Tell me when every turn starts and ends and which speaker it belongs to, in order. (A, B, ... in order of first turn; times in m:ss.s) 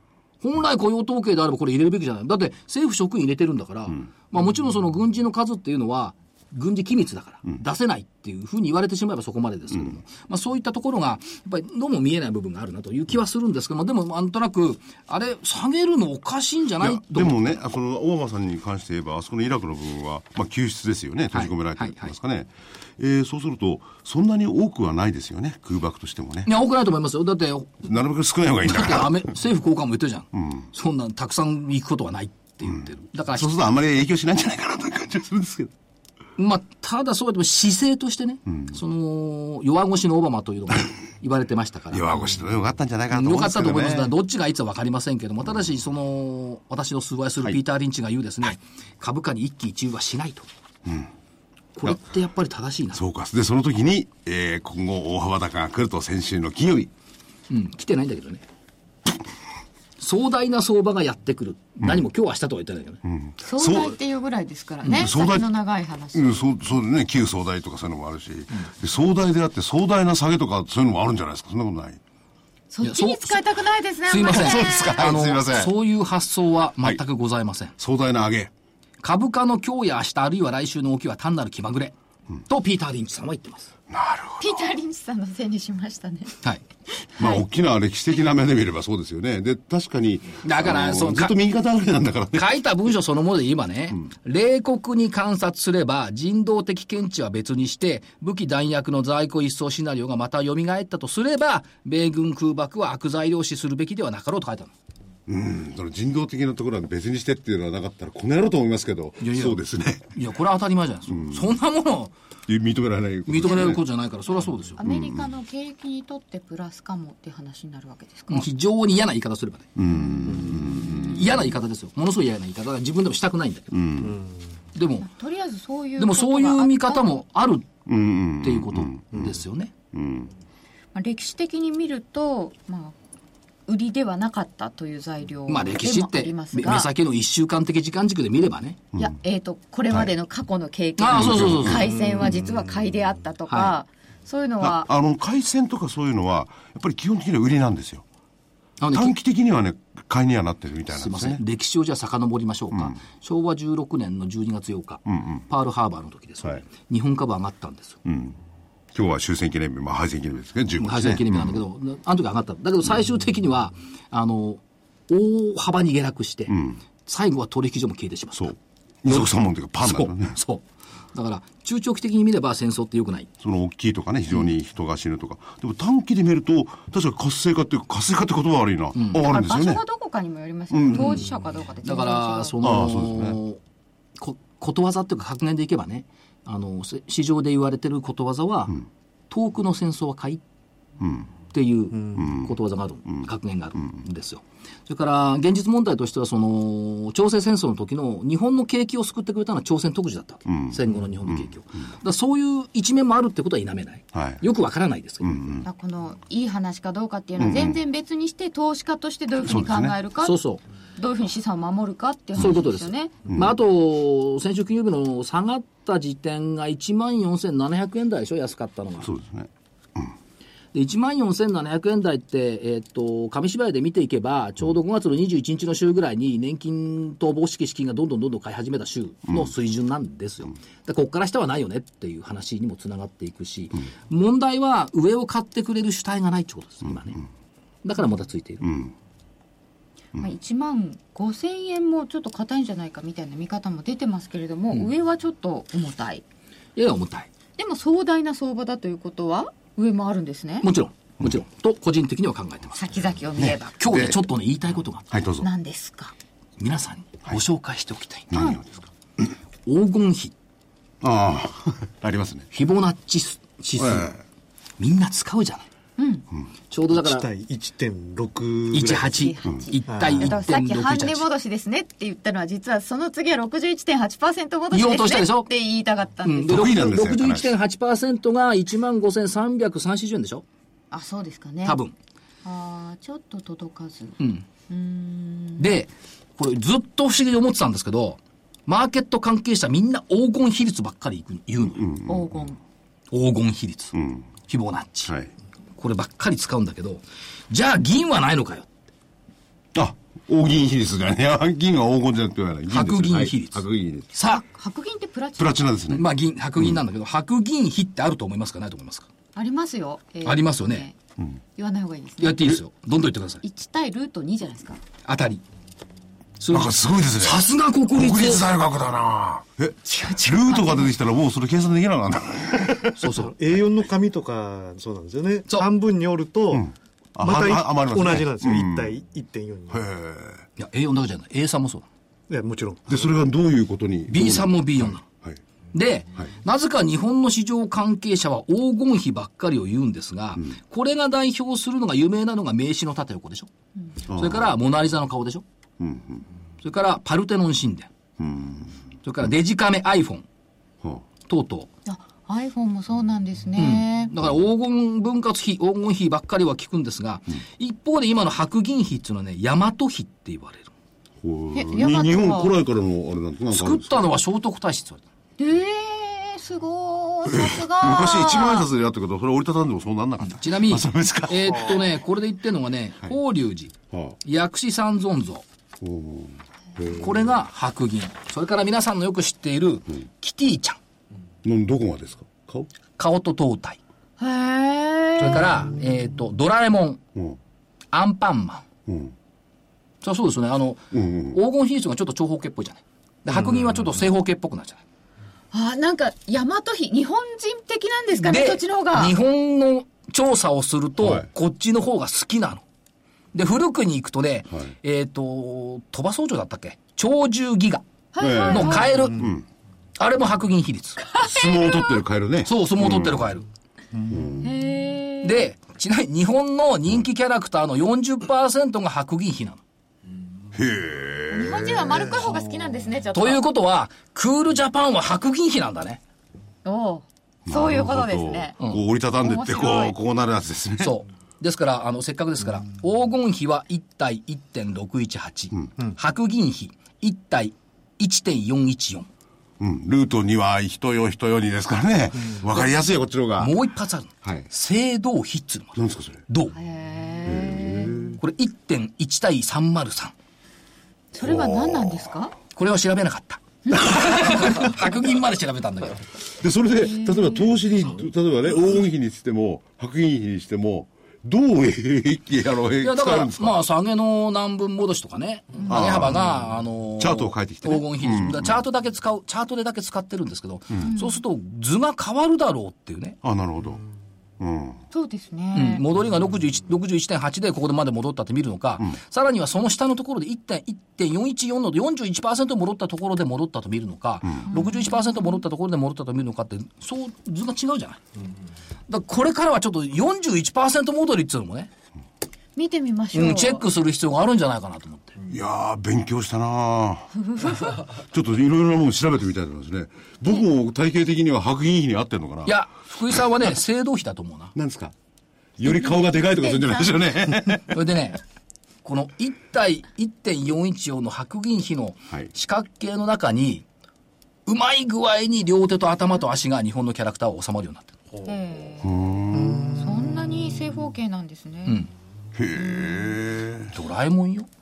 0:00.4-0:17.4 A
0:16.8-0:26.5 B
0:21.3-0:22.1 A
0:26.4-0:27.8 A
0:27.8-0:29.3 B
0:28.6-0:33.5 A
0:30.3-0:30.7 B
0:32.7-0:35.7 B
0:36.4-0:42.2 A
0:38.5-0:38.7 B
0:41.9-0:44.1 B
0:43.1-0:50.5 A
0:50.8-0:51.1 B
0:51.8-0:53.0 A
0:52.9-0:56.9 B
0:57.5-0:58.4 A
1:00.0-1:03.0 A
1:03.0-1:04.0 B
1:03.4-1:06.6 C
1:04.8-1:05.5 B
1:06.1-1:12.0 B
1:12.7-1:15.0 C
1:12.8-1:13.4 A
1:14.1-1:17.7 A
1:14.2-1:15.7 B
1:17.8-1:18.5 B
1:19.0-1:23.7 A
1:23.9-1:24.7 B
1:24.4-1:26.4 C
1:27.0-1:27.4 C
1:27.2-1:32.6 B
1:30.4-1:31.4 A
1:32.3-1:44.7 A
1:45.3-1:50.1 B
1:49.2-1:52.1 A
1:52.5-1:53.8 B
1:53.3-1:54.8 A
1:54.8-1:58.5 C
1:54.8-1:55.3 B
1:58.3-1:59.7 A
1:59.8-2:01.4 B
1:59.9-2:01.2 C
2:00.3-2:03.7 A
2:03.7-2:04.2 B
2:04.7-2:05.1 A
2:05.0-2:07.0 C
2:06.0-2:07.7 A
2:07.8-2:09.3 B
2:08.4-2:09.7 A
2:09.9-2:10.3 B
2:10.9-2:12.9 C
2:13.7-2:16.9 C
2:15.5-2:18.8 A
2:19.0-2:24.9 C
2:21.0-2:21.8 A
2:21.1-2:21.8 B
2:21.9-2:22.6 D
2:23.5-2:23.8 A
2:24.6-2:28.0 B
2:28.8-2:29.2 A
2:28.9-2:31.4 B
2:30.9-2:38.0 A
2:35.1-2:35.4 B
2:38.0-2:38.4 B
2:38.9-2:41.6 B
2:40.8-2:48.5 A
2:46.5-2:46.8 B
2:48.4-2:50.4 B
2:49.8-2:53.3 A
2:53.4-2:59.8 B
2:58.9-2:59.2 A
2:59.1-3:02.6 C
3:00.7-3:01.3 B
3:01.0-3:01.2 A
3:01.8-3:03.6 A
3:02.6-3:03.4 B
3:04.2-3:10.4 A
3:11.0-3:11.3 B
3:11.5-3:25.5 A
3:12.1-3:12.5 B
3:20.5-3:21.5 B
3:24.1-3:24.4 B
3:25.2-3:25.7 B
3:25.6-3:30.4 C
3:27.4-3:27.8 B
3:29.4-3:30.0 B
3:30.2-3:30.6 A
3:31.0-3:33.1 C
3:32.4-3:39.1 A
3:39.0-3:40.1 B
3:40.7-3:57.2 A
3:57.8-3:58.7 A
3:58.6-3:58.9 B
4:00.2-4:06.2 C
4:06.8-4:07.3 A
4:07.6-4:10.7 C
4:10.6-4:12.8 A
4:12.8-4:14.0 C
4:13.4-4:14.1 B
4:13.8-4:15.1 A
4:15.1-4:15.5 B
4:15.4-4:16.1 C
4:16.6-4:18.3 A
4:18.3-4:18.9 B
4:18.3-4:18.6 C
4:19.6-4:20.3 A
4:21.0-4:22.5 B
4:22.5-4:24.1 A
4:23.8-4:24.2 B
4:24.8-4:25.7 A
4:26.0-4:26.2 C
4:26.7-4:27.3 A
4:26.9-4:29.2 D
4:28.7-4:31.3 A
4:29.0-4:36.6 C
4:29.9-4:30.3 D
4:34.7-4:35.5 A
4:36.2-4:40.4 A
4:36.4-4:37.5 B
4:40.9-4:41.8 C
4:41.6-4:41.9 A
4:42.4-4:45.7 C
4:44.2-4:44.4 A
4:45.6-4:51.9 A
4:51.8-4:52.5 B
4:52.1-4:52.6 C
4:53.1-4:55.1 A
4:53.9-4:54.3 B
4:55.8-4:58.7 A
4:59.7-5:04.1 B
5:02.7-5:04.4 A
5:04.2-5:05.6 C
5:05.4-5:06.0 B
5:05.9-5:09.1 A
5:09.3-5:10.9 C
5:10.2-5:10.9 A
5:11.6-5:12.6 C
5:12.2-5:13.4 A
5:13.4-5:14.8 C
5:15.0-5:15.4 A
5:16.4-5:18.5 A
5:16.5-5:23.0 B
5:19.8-5:20.9 C
5:23.0-5:23.3 A
5:23.1-5:29.8 D
5:26.5-5:29.0 B
5:29.7-5:30.4 B
5:30.6-5:31.8 A
5:32.3-5:33.0 D
5:32.9-5:35.4 B
5:34.1-5:35.0 A
5:35.7-5:43.5 A
5:44.1-5:44.5 B
5:44.1-5:45.4 A
5:45.8-5:46.2 B
5:46.6-5:47.9 A
5:48.2-5:48.7 B
5:49.0-5:50.2 A
5:51.3-5:51.7 A
5:51.8-5:54.1 C
5:53.6-6:00.7 A
6:01.2-6:04.1 B
6:01.5-6:02.6 C
6:03.5-6:05.0 A
6:05.4-6:08.7 C
6:07.2-6:12.0 B
6:10.2-6:15.4 A
6:13.9-6:14.2 B
6:15.8-6:17.2 B
6:16.9-6:20.8 A
6:21.4-6:22.7 B
6:23.0-6:23.8 A
6:24.2-6:25.6 C
6:25.2-6:27.0 A
6:27.9-6:28.6 A
6:28.9-6:29.1 B
6:30.0-6:34.8 A
6:30.9-6:31.4 B
6:33.4-6:33.8 B
6:35.5-6:39.2 C
6:38.1-6:42.6 A
6:41.0-6:41.3 B
6:43.3-6:47.8 A
6:48.1-6:49.1 C
6:48.2-6:49.4 B
6:48.5-6:49.3 A
6:50.0-6:51.0 A
6:51.1-6:52.0 C
6:51.2-6:53.3 B
6:52.4-6:53.4 A
6:54.1-6:54.5 B
6:54.4-6:55.5 C
6:55.2-6:59.6 A
7:00.5-7:02.3 B
7:01.3-7:03.4 C
7:03.1-7:06.0 A
7:06.6-7:08.6 C
7:07.5-7:11.0 B
7:09.2-7:10.0 C
7:10.8-7:19.1 A
7:19.6-7:23.6 B
7:23.4-7:26.5 A
7:24.2-7:24.5 B
7:25.7-7:26.2 B
7:26.5-7:28.2 C
7:27.2-7:28.2 B
7:28.2-7:30.1 A
7:31.1-7:32.3 C
7:31.2-7:32.1 B
7:32.5-7:36.0 A
7:33.7-7:34.4 C
7:36.3-7:43.6 B
7:36.8-7:37.5 C
7:42.8-7:53.2 A
7:45.7-7:46.3 B
7:47.0-7:48.6 B
7:50.8-7:51.2 C
7:53.2-7:53.8 B
7:54.4-7:54.8 B
7:54.9-7:55.8 C
7:55.5-8:08.0 A
8:04.5-8:05.4 C
8:08.9-8:11.7 A
8:12.6-8:13.6 C
8:13.1-8:15.1 A
8:15.3-8:17.2 B
8:17.3-8:17.6 C
8:18.0-8:22.6 B
8:22.4-8:24.5 A
8:24.5-8:24.9 B
8:25.6-8:27.8 B
8:25.6-8:27.0 C
8:27.7-8:28.2 A
8:28.8-8:33.6 A
8:34.4-8:37.9 A
8:38.2-8:39.0 C
8:38.8-8:39.8 B
8:39.7-8:41.9 C
8:42.3-8:43.7 B
8:42.6-8:43.1 C
8:43.7-8:44.5 A